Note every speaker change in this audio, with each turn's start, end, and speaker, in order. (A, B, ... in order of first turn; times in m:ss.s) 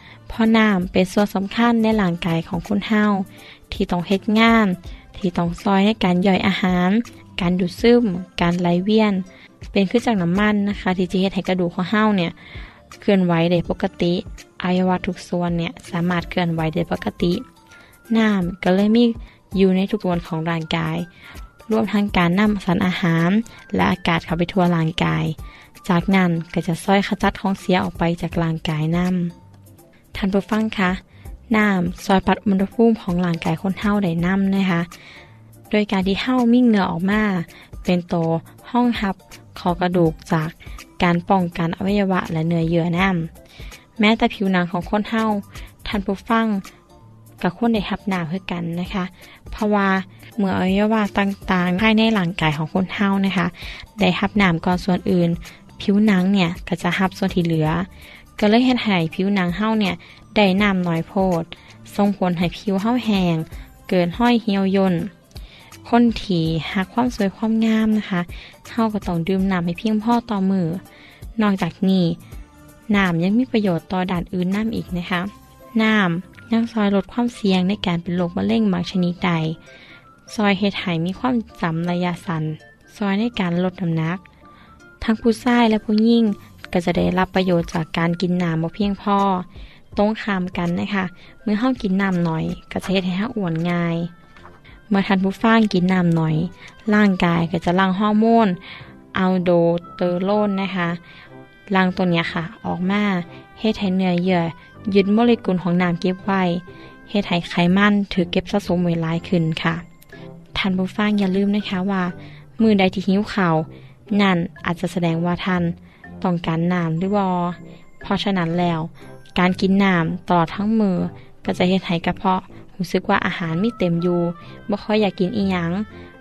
0:00.3-0:12.3 A
0:13.0-0:17.4 A
0:18.1-0:21.1 A
0:21.7-0:29.3 A
0:30.1-0:34.9 A
0:35.7-0:43.3 A
0:44.0-0:46.6 A
0:47.4-1:05.1 A
1:05.8-1:10.8 A
1:11.4-1:12.2 A
1:12.9-1:19.6 A
1:20.3-1:24.2 A
1:25.0-1:34.1 A
1:34.9-1:38.6 A
1:39.1-1:41.0 A
1:41.7-1:49.8 A
1:50.5-2:05.9 A